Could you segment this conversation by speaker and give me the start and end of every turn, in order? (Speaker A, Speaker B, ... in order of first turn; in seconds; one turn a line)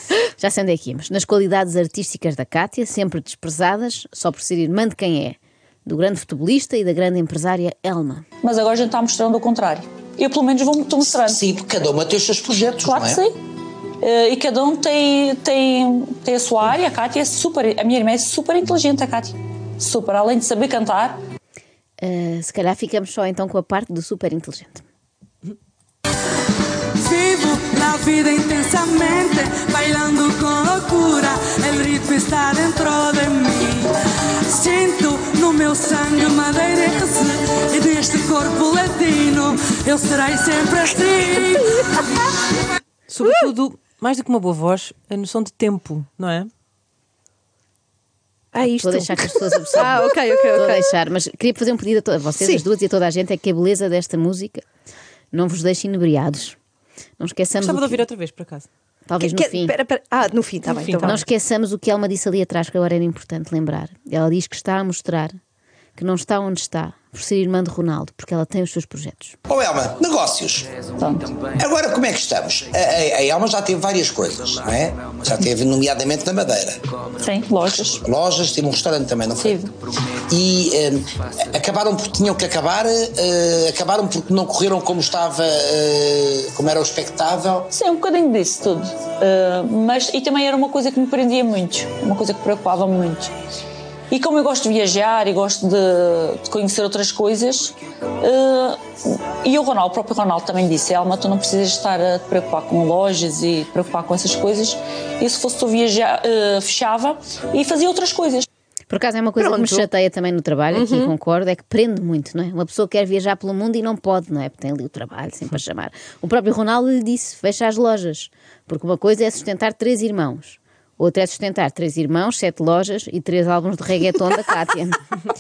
Speaker A: 0.4-8.2
Speaker B: 8.4-11.4
Speaker C: 11.2-13.2
Speaker B: 12.8-13.3
Speaker B: 14.0-21.2
Speaker A: 22.0-24.8
Speaker D: 27.0-41.8
Speaker E: 43.1-46.5
Speaker F: 48.5-50.9
Speaker A: 48.8-54.6
Speaker A: 55.3-56.6
Speaker A: 57.2-58.0
Speaker E: 57.6-58.7
Speaker A: 59.1-59.7
Speaker F: 59.2-61.2
Speaker E: 60.7-61.2
Speaker A: 61.0-65.4
Speaker A: 66.0-69.3
Speaker C: 69.5-70.7
Speaker B: 71.0-71.3
Speaker C: 71.6-76.8
Speaker B: 77.2-78.0
Speaker C: 78.0-79.6
Speaker B: 79.4-79.7
Speaker C: 80.3-87.7
Speaker B: 87.7-93.3
Speaker B: 94.1-98.8
Speaker B: 99.4-108.5
Speaker A: 108.9-125.0
Speaker F: 109.4-109.8
Speaker F: 110.7-111.1